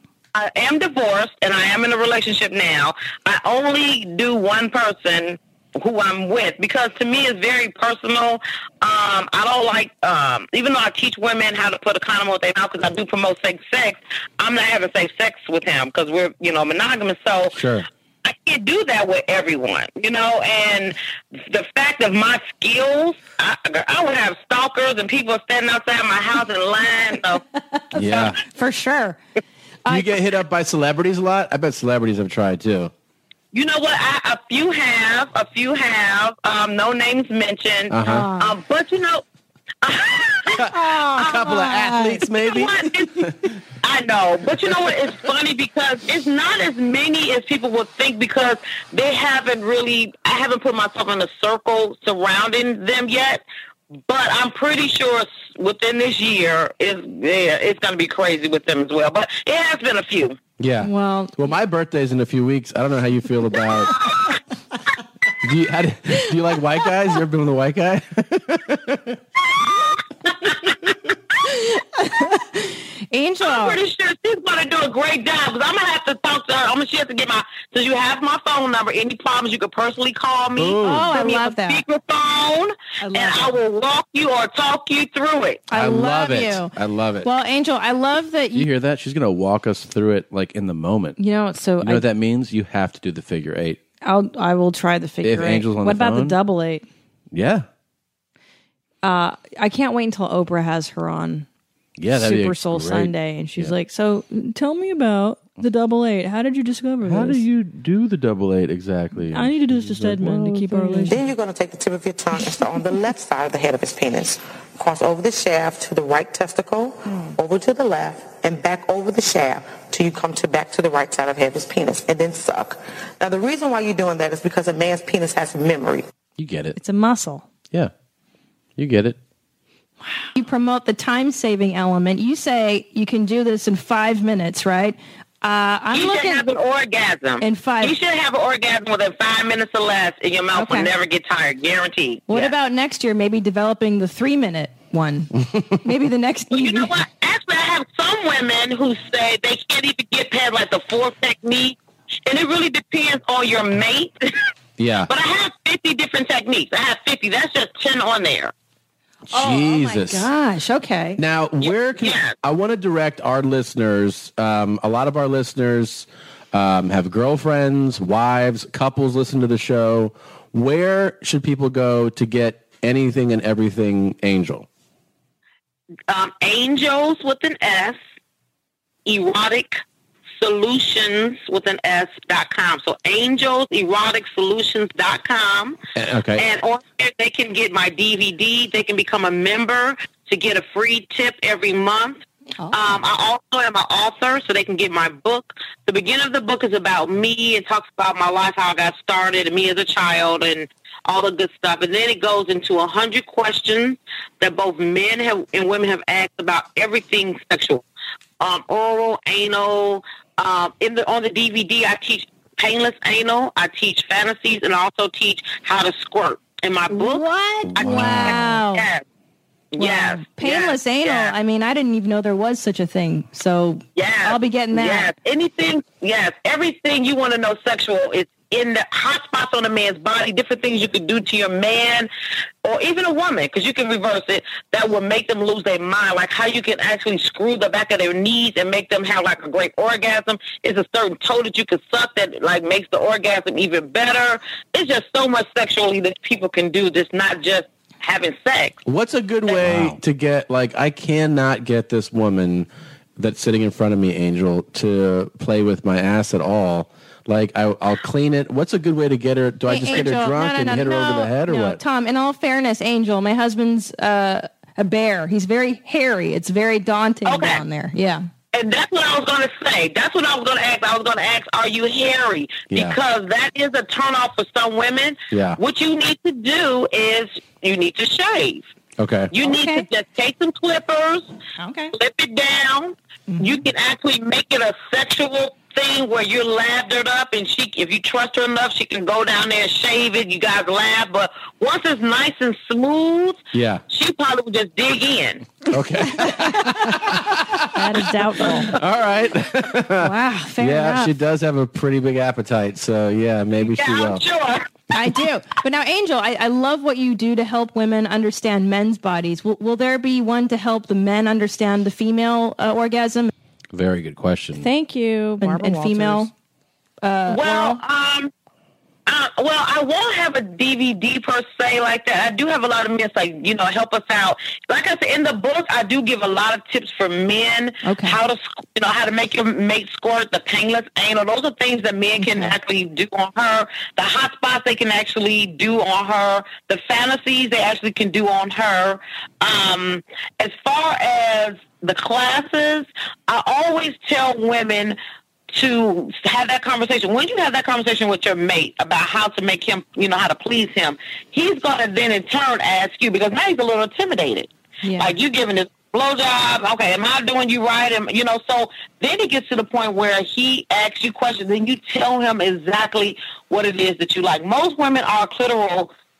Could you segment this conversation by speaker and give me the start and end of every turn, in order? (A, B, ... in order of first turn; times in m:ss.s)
0:00.3-0:17.6 A
0:17.6-0:17.8 B
0:18.2-0:27.4 A
0:27.7-0:29.2 C
0:28.0-0:28.3 B
0:28.0-0:28.3 A
0:29.8-0:30.2 C
0:29.9-0:32.9 D
0:29.9-0:30.7 B
0:33.5-0:39.2 A
0:38.0-0:38.6 C
0:39.8-0:41.5 A
0:40.6-0:42.2 C
0:40.9-0:42.6 B
0:41.5-0:42.7 D
0:42.4-0:43.2 A
0:43.8-0:53.4 A
0:54.1-1:00.4 A
1:00.6-1:03.9 D
1:00.8-1:01.4 C
1:01.5-1:03.7 B
1:05.5-1:08.0 D
1:05.5-1:08.0 B
1:10.3-1:10.7 A
1:11.4-1:13.8 C
1:13.4-1:25.7 A
1:20.6-1:21.1 B
1:20.8-1:21.8 C
1:23.0-1:23.6 C
1:25.7-1:28.7 C
1:25.7-1:27.3 B
1:28.5-1:31.2 B
1:31.2-1:32.0 C
1:31.8-1:33.8 B
1:34.0-1:36.8 C
1:35.2-1:36.4 B
1:37.3-1:37.7 B
1:39.0-1:41.5 C
1:42.0-1:43.7 B
1:42.1-1:47.4 C
1:47.0-1:51.2 B
1:49.3-1:51.2 C
1:51.1-2:06.0 E
1:57.1-1:57.3 C
2:06.4-2:06.8 B
2:06.8-2:07.5 C
2:08.8-2:09.2 B
2:10.2-2:16.4 C
2:15.9-2:22.5 A
2:17.4-2:18.0 C
2:20.5-2:20.9 C
2:22.3-2:26.9 C
2:26.5-2:34.1 A
2:34.8-2:35.0 D
2:35.1-2:38.5 A
2:39.3-2:40.3 B
2:39.3-2:41.2 C
2:39.6-2:40.2 D
2:41.2-2:54.6 D
2:41.2-2:41.5 B
2:41.6-2:42.4 A
2:42.5-2:43.1 B
2:45.0-2:45.4 B
2:56.1-2:58.0 A
2:59.0-2:59.8 A
3:00.4-3:05.8 A
3:06.3-3:27.8 A
3:28.4-3:39.0 A
3:36.9-3:38.9 C
3:37.8-3:38.6 B
3:39.7-3:41.3 A
3:39.8-3:45.1 C
3:43.9-3:52.1 A
3:52.6-4:08.8 A
4:08.9-4:12.7 D
4:09.5-4:09.7 A
4:09.6-4:10.0 B
4:13.2-4:21.8 D
4:19.6-4:28.2 C
4:19.7-4:21.7 B
4:27.2-4:27.6 A
4:28.5-4:38.7 A
4:39.0-4:39.3 D
4:39.3-4:41.3 A
4:39.4-4:39.8 C
4:41.6-4:41.9 C
4:41.9-4:55.5 A
4:43.3-4:43.6 C
4:55.7-4:56.7 D
4:55.8-4:57.8 B
4:56.3-4:56.7 C
4:57.7-4:58.7 C
4:58.5-4:59.7 B
5:00.0-5:01.1 C
5:00.6-5:04.2 D
5:00.7-5:01.1 B
5:03.0-5:03.6 B
5:03.6-5:04.7 A
5:04.9-5:13.3 C
5:13.7-5:14.7 B
5:14.6-5:16.3 C
5:15.4-5:16.3 B
5:17.0-5:17.8 C
5:17.2-5:18.3 A
5:19.1-5:45.0 A
5:27.8-5:28.2 C
5:32.2-5:32.6 C
5:45.5-6:05.9 A
5:54.8-5:55.1 C